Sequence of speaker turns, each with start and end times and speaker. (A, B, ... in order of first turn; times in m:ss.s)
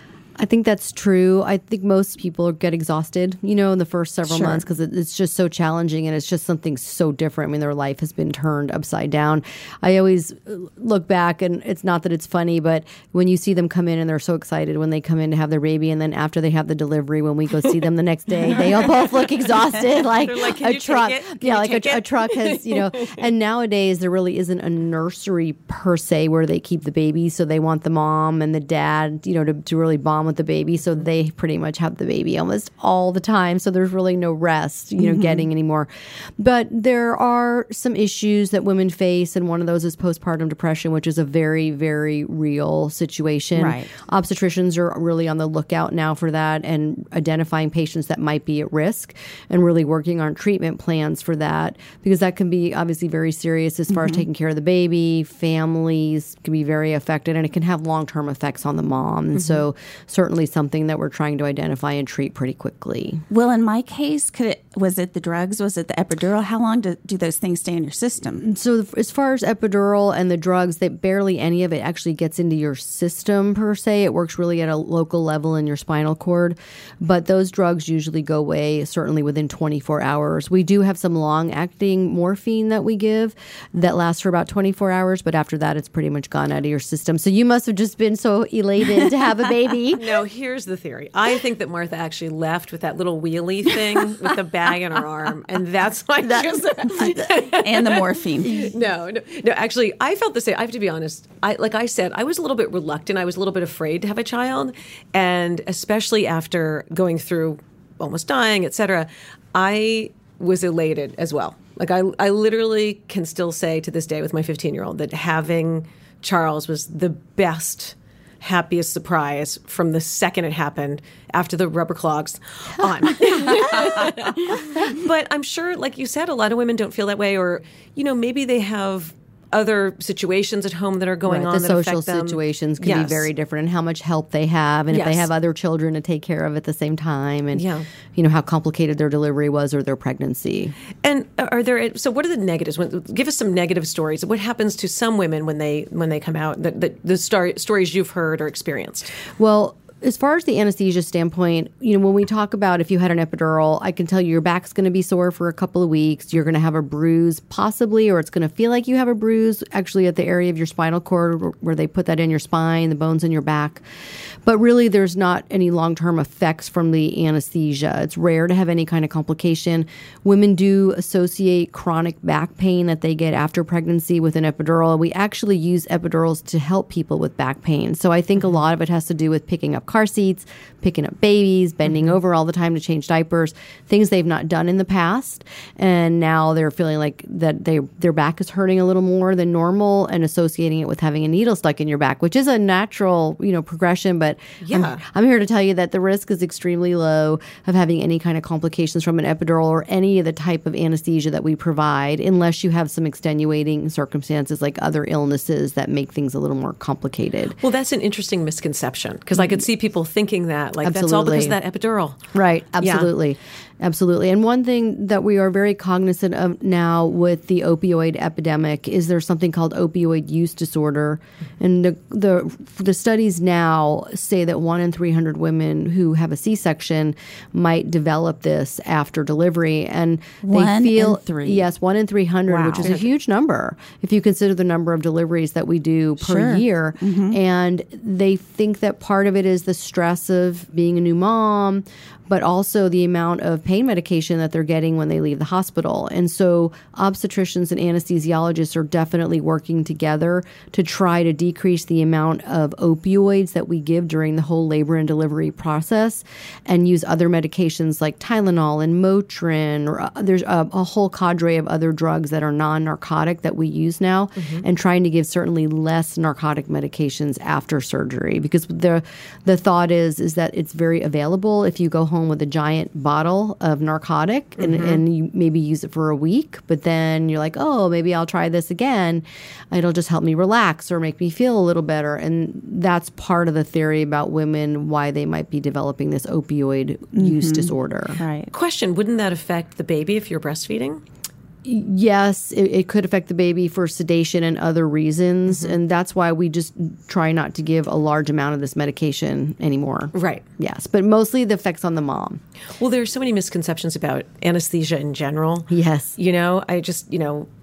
0:00.4-1:03.2 A
0:20.0-0:23.2 B
0:35.0-0:35.4 C
0:43.5-0:43.9 C
1:03.3-1:08.4 C
1:08.4-1:30.2 A
1:29.9-2:13.3 B
1:36.2-1:38.7 C
2:11.2-2:20.8 A
2:14.9-2:15.3 B
2:17.5-2:17.9 B
2:21.0-2:29.1 B
2:29.4-2:43.8 A
2:44.4-3:27.6 A
3:14.6-3:15.0 B
3:27.6-3:32.2 B
3:30.8-3:31.6 A
3:32.3-4:48.2 A
3:32.8-3:33.1 B
3:50.4-3:51.6 C
3:52.5-3:52.9 C
3:56.2-3:57.4 C
4:34.6-4:35.0 B
4:47.1-4:48.5 C
4:48.5-4:51.0 B
4:51.6-5:02.4 A
4:55.5-4:55.8 B
5:00.1-5:00.4 B
5:02.8-5:07.5 B
5:05.7-5:06.2 A